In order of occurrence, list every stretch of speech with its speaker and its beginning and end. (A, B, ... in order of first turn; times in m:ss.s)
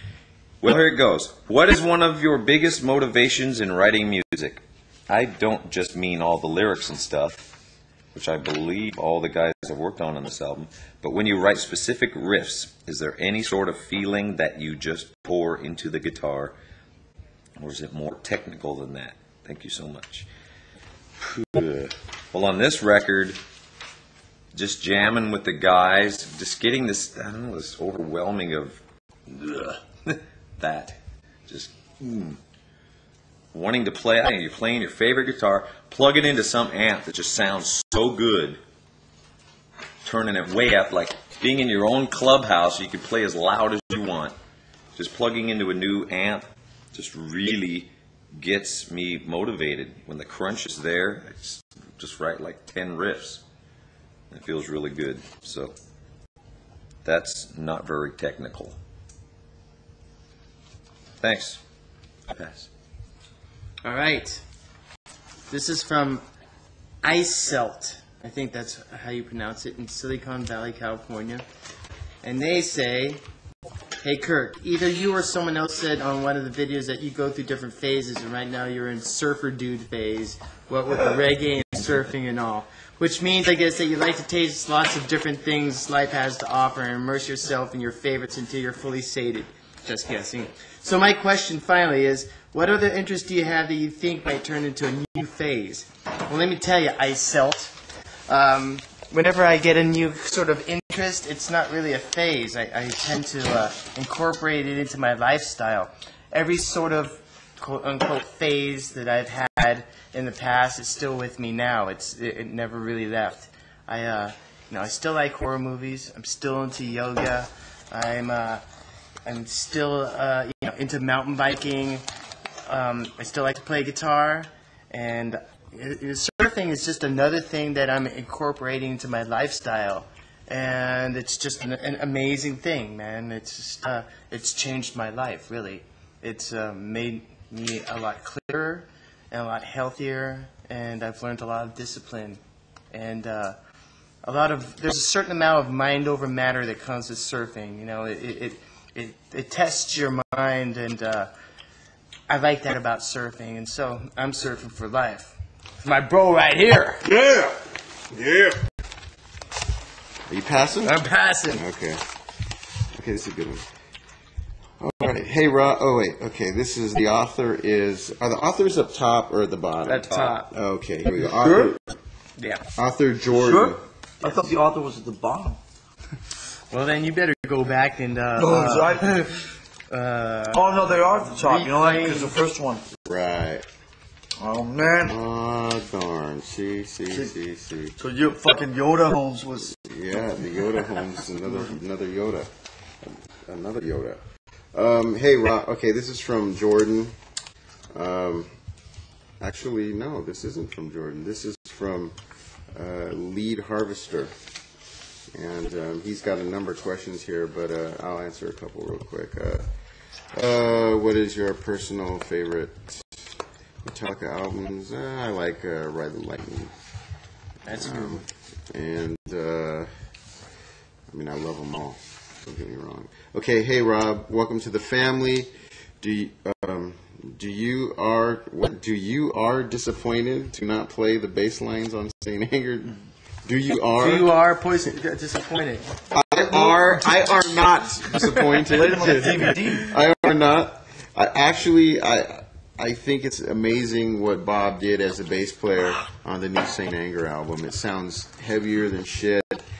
0:00.6-0:07.5 A
0:08.1-0:16.6 A
0:17.6-0:20.3 A
0:21.2-0:23.4 A
0:24.5-0:32.4 A
0:33.5-0:38.6 A
0:40.0-0:44.4 A
0:45.0-0:53.4 A
0:54.3-0:55.7 A
0:57.0-0:58.8 A
1:01.2-1:01.6 A
1:02.3-1:02.7 A
1:03.8-1:04.4 B
1:05.5-1:06.2 B
1:07.0-1:11.4 B
1:12.2-1:13.2 B
1:14.0-1:37.8 B
1:38.3-1:58.6 B
1:59.2-2:02.0 B
2:02.6-2:22.4 B
2:22.9-2:23.6 B
2:24.2-2:31.3 B
2:32.3-2:37.1 B
2:37.2-2:37.5 C
2:38.2-2:38.5 C
2:40.3-2:41.0 C
2:40.8-2:41.6 B
2:41.5-2:42.0 C
2:42.9-2:43.6 C
2:44.8-2:51.9 C
2:49.9-2:50.5 B
2:51.4-2:51.8 D
2:52.4-2:52.6 B
2:52.8-2:53.8 C
2:53.3-2:55.6 D
2:56.7-2:59.4 B
2:58.4-2:59.3 D
2:59.9-3:00.8 B
3:00.5-3:02.9 D
3:01.3-3:02.4 B
3:03.1-3:03.6 C
3:04.4-3:05.2 D
3:05.1-3:08.0 C
3:08.0-3:09.8 D
3:09.7-3:12.5 C
3:11.4-3:11.8 D
3:13.0-3:14.2 C
3:14.7-3:17.2 C
3:17.9-3:18.5 C
3:19.4-3:22.2 C
3:22.7-3:24.3 C
3:25.3-3:29.7 C
3:30.3-3:33.2 C
3:33.8-3:36.7 C
3:37.7-3:38.2 B
3:37.7-3:39.9 C
3:41.1-3:54.4 C
3:54.0-3:56.0 B
3:56.1-4:09.6 C
3:58.7-4:00.0 D